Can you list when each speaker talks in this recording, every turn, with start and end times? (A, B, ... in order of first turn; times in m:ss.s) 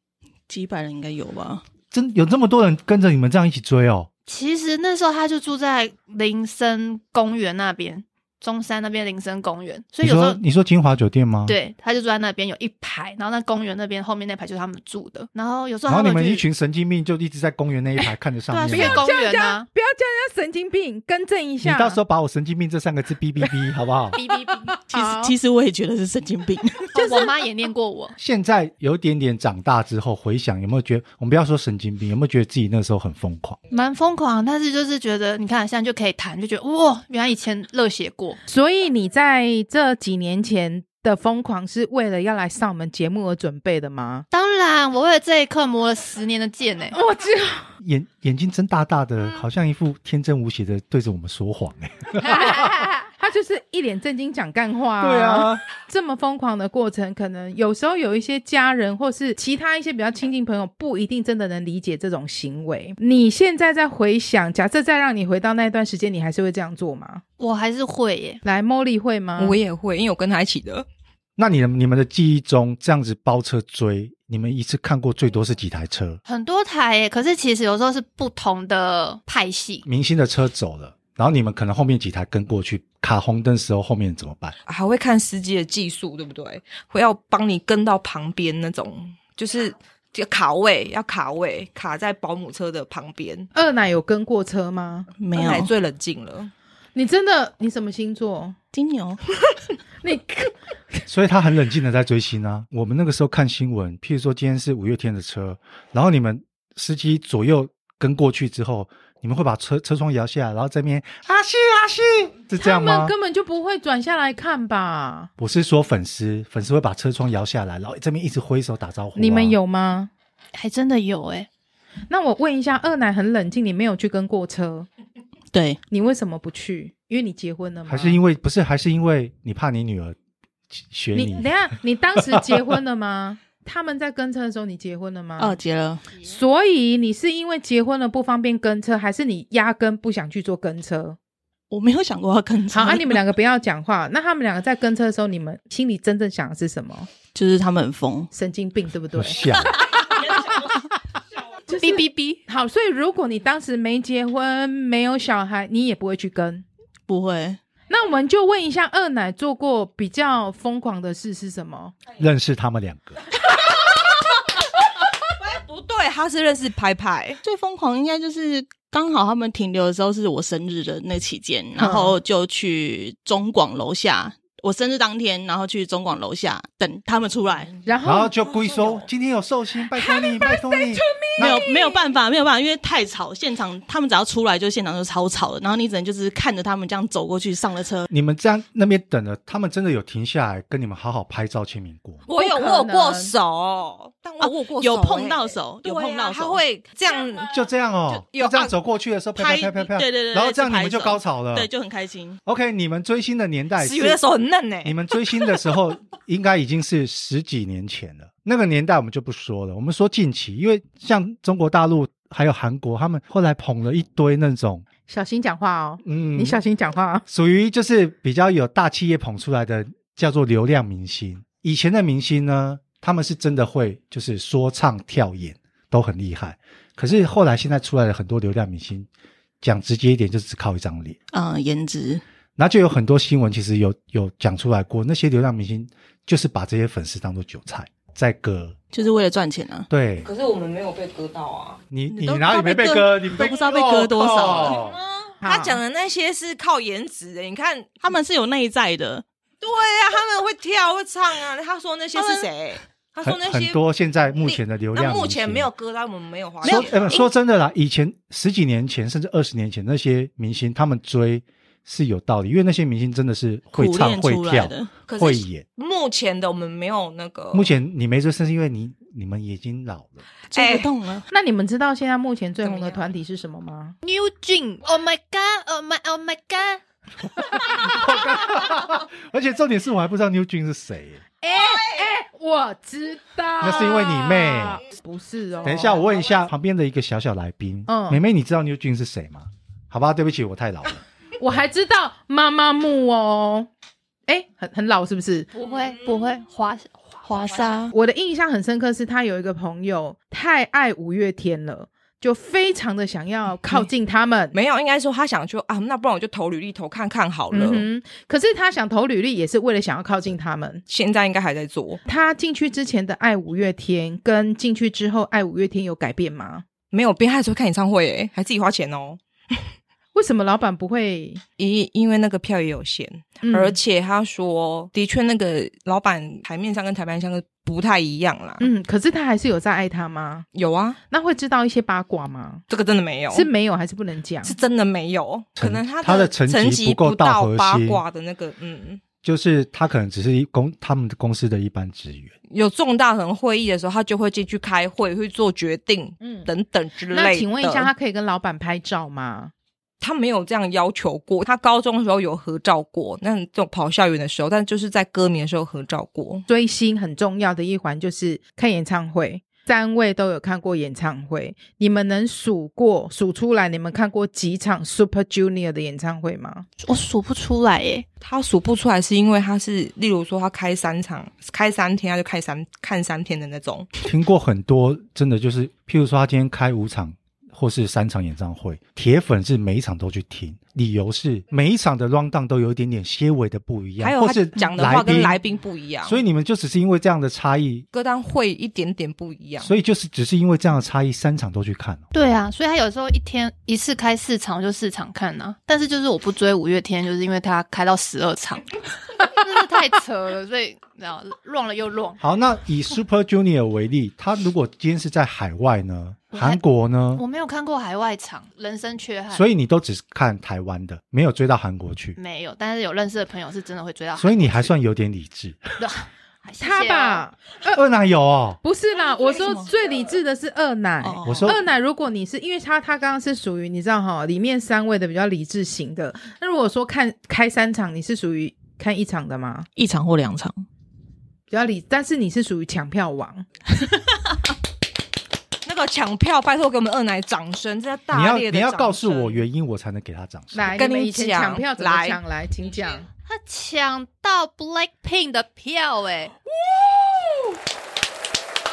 0:00.5-0:01.6 A
0:01.9-0:04.1 B
0:04.3-0:10.4 C
0:10.0-0:11.6 B
0:11.5-0:16.4 C
0:15.9-0:19.1 B
0:18.5-0:19.7 C
0:18.7-0:22.0 D
0:21.6-0:24.2 B
0:24.2-0:24.8 C
0:24.2-0:25.3 D
0:24.9-0:27.2 A
0:27.0-0:28.2 C
0:28.2-0:33.6 B
0:33.7-0:38.4 C
0:38.5-0:44.3 D
0:44.3-0:47.0 C
0:46.9-0:47.7 D
0:47.8-0:52.7 B
0:52.2-1:07.2 D
0:55.0-0:55.6 B
1:07.4-1:08.4 C
1:08.4-1:09.6 D
1:09.4-1:10.9 E
1:11.4-1:16.2 B
1:16.3-1:19.8 C
1:19.8-1:24.6 B
1:24.7-1:33.5 E
1:33.5-1:35.1 D
1:35.2-1:35.7 A
1:35.3-1:36.5 E
1:37.0-1:38.6 D
1:38.7-1:39.2 A
1:40.0-1:41.0 D
1:41.1-1:53.1 B
1:52.6-1:55.3 D
1:55.4-1:59.6 B
1:59.2-2:00.1 D
2:00.6-2:01.5 C
2:02.1-2:04.9 D
2:05.5-2:05.8 A
2:05.9-2:08.2 D
2:07.9-2:10.2 B
2:10.8-2:11.5 B
2:11.1-2:15.6 D
2:15.4-2:16.0 A
2:16.2-2:21.2 D
2:21.7-2:23.2 A
2:22.7-2:27.1 D
2:27.3-2:28.3 A
2:28.3-2:30.8 D
2:29.2-2:29.8 B
2:31.7-2:36.6 D
2:31.7-2:32.4 C
2:37.1-2:37.6 A
2:37.9-2:41.9 D
2:42.2-2:43.2 B
2:45.4-2:47.4 E
2:47.4-2:57.7 A
2:51.8-2:52.2 D
2:57.7-2:59.1 E
2:57.8-2:58.3 D
2:58.0-3:01.6 B
3:00.0-3:02.0 D
3:01.4-3:08.1 A
3:08.1-3:12.2 B
3:12.3-3:18.7 E
3:12.3-3:13.3 D
3:14.4-3:16.6 A
3:17.5-3:21.7 B
3:19.4-3:22.4 A
3:22.5-3:24.2 B
3:23.8-3:25.5 E
3:24.8-3:34.9 B
3:35.1-3:37.2 D
3:36.0-3:36.6 B
3:37.3-3:49.1 B
3:49.6-3:51.2 B
3:51.3-3:52.2 A
3:52.6-3:58.8 B
3:58.9-3:59.9 A
3:59.9-4:00.3 B
4:00.2-4:01.8 E
4:01.9-4:05.0 B
4:02.1-4:04.8 A
4:04.3-4:08.0 E
4:05.4-4:05.8 D
4:08.0-4:09.2 A
4:09.6-4:13.8 E
4:12.2-4:12.5 A
4:13.2-4:15.7 B
4:14.3-4:17.3 E
4:16.6-4:17.3 A
4:16.6-4:25.6 B
4:23.7-4:24.9 A
4:25.1-4:27.8 E
4:27.5-4:30.2 B
4:30.5-4:31.3 A
4:30.5-4:30.9 E
4:31.3-4:34.0 D
4:32.6-4:33.0 E
4:34.0-4:36.8 C
4:37.7-4:41.2 B
4:41.4-4:46.0 D
4:43.6-4:44.8 B
4:45.6-4:51.0 B
4:46.1-4:46.4 E
4:47.9-4:48.2 D
4:51.4-4:53.7 D
4:54.3-4:55.5 D
4:55.5-4:57.9 C
4:57.3-4:57.9 E
4:57.9-5:04.6 D
5:04.5-5:07.9 E
5:07.5-5:10.8 D
5:10.9-5:12.0 E
5:12.1-5:16.6 D
5:16.9-5:19.7 E
5:20.1-5:21.4 D
5:21.6-5:28.7 E
5:23.4-5:23.8 D
5:28.6-5:30.5 D
5:30.5-5:31.0 E
5:31.1-5:32.6 D
5:32.7-5:33.5 E
5:33.3-5:34.6 D
5:34.4-5:39.0 E
5:35.6-5:38.0 B
5:39.2-5:42.3 B
5:42.5-5:47.9 E
5:46.2-5:46.5 D
5:47.1-5:49.5 D
5:50.0-5:56.4 E
5:56.5-6:06.7 D
6:06.8-6:08.1 C
6:08.2-6:13.9 E
6:14.0-6:25.4 B
6:24.0-6:26.2 E
6:26.0-6:27.9 B
6:27.9-6:29.7 E
6:29.6-6:32.0 B
6:32.1-6:38.7 C
6:39.2-6:42.2 C
6:42.2-6:47.2 B
6:46.3-6:46.6 C
6:47.2-6:49.4 C
6:49.3-6:52.2 B
6:52.2-6:54.7 C
6:54.2-6:55.6 B
6:55.8-6:57.2 C
6:56.6-6:57.8 D
6:57.7-6:58.6 B
6:58.6-7:09.7 D
6:59.3-6:59.6 E
7:01.0-7:01.6 A
7:01.2-7:01.6 B
7:09.8-7:10.6 A
7:11.5-7:13.5 D
7:15.6-7:19.4 E
7:18.1-7:20.8 B
7:20.5-7:23.1 D
7:20.7-7:22.2 E
7:23.3-7:26.4 C
7:26.6-7:27.5 D